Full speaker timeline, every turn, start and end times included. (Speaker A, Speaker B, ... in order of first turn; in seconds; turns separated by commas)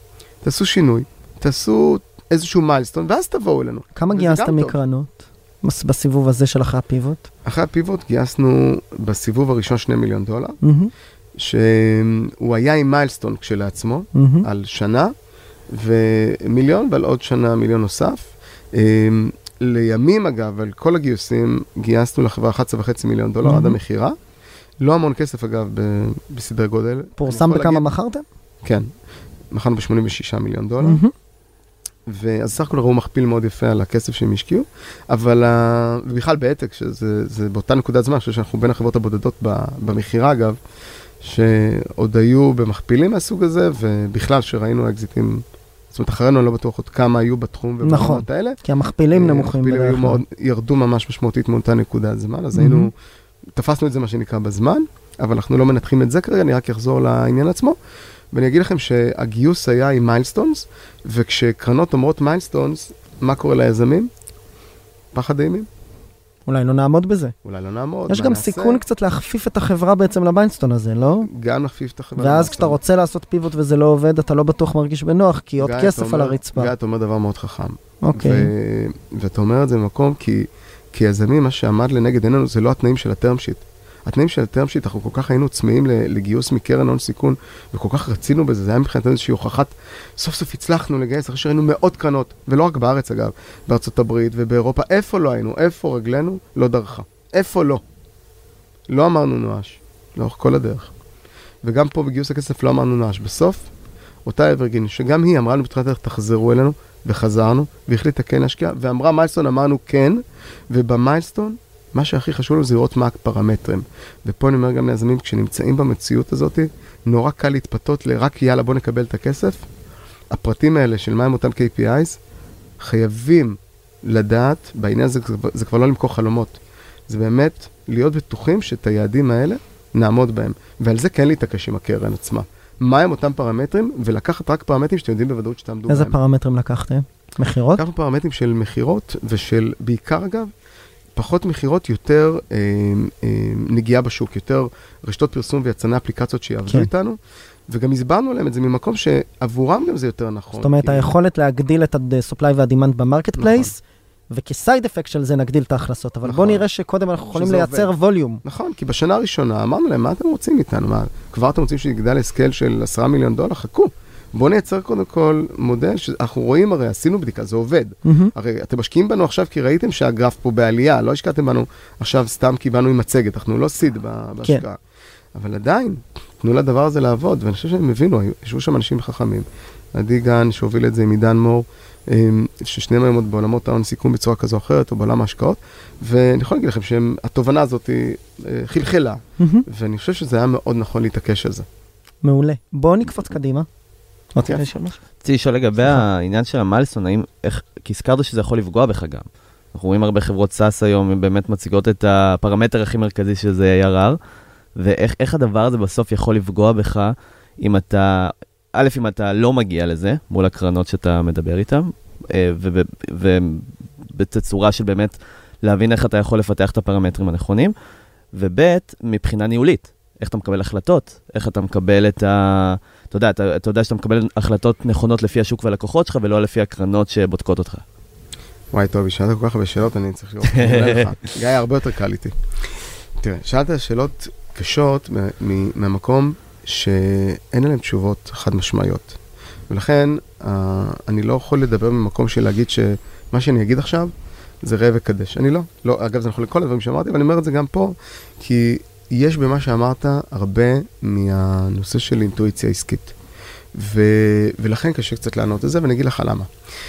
Speaker A: 0.4-4.8, Speaker B: 4.0-7.3, Speaker A: 7.5-10.6, Speaker B: 10.6-10.9, Speaker A: 11.4-15.1, Speaker B: 14.2-14.5, Speaker A: 15.7-24.2, Speaker B: 23.4-23.8, Speaker A: 24.8-27.9, Speaker B: 27.2-28.2, Speaker A: 29.5-31.0, Speaker B: 30.8-31.1, Speaker A: 32.1-40.6, Speaker A: 41.2-48.6, Speaker B: 47.8-50.2, Speaker A: 49.1-53.0, Speaker B: 52.5-52.9, Speaker A: 53.5-57.8, Speaker A: 58.3-64.1, Speaker A: 65.1-65.7, Speaker B: 66.5-67.3, Speaker A: 67.4-68.8, Speaker B: 68.1-71.3, Speaker A: 71.2-72.8, Speaker B: 72.2-76.7, Speaker A: 75.6-97.8, Speaker B: 78.0-78.5, Speaker A: 98.9-100.9, Speaker A: 101.6-103.7, Speaker A: 104.2-119.7, Speaker A: 120.3-122.2, Speaker A: 122.8-126.6, Speaker A: 127.1-136.2, Speaker B: 135.9-137.8, Speaker A: 137.8-140.5, Speaker A: 141.2-147.2, Speaker A: 147.7-151.1, Speaker B: 150.6-153.8, Speaker A: 153.4-153.7, Speaker B: 154.3-158.4, Speaker A: 156.2-156.7, Speaker A: 157.3-157.9, Speaker A: 158.4-174.8, Speaker B: 168.1-168.3, Speaker A: 175.3-191.7, Speaker B: 189.4-189.7, Speaker B: 192.2-193.7, Speaker B: 194.3-195.0, Speaker C: 195.2-204.2, Speaker B: 195.8-196.0, Speaker C: 204.8-217.7, Speaker C: 218.3-227.8, Speaker A: 228.7-232.4, Speaker C: 230.5-231.0, Speaker A: 233.2-239.2, Speaker A: 239.7-253.1, Speaker A: 253.7-256.5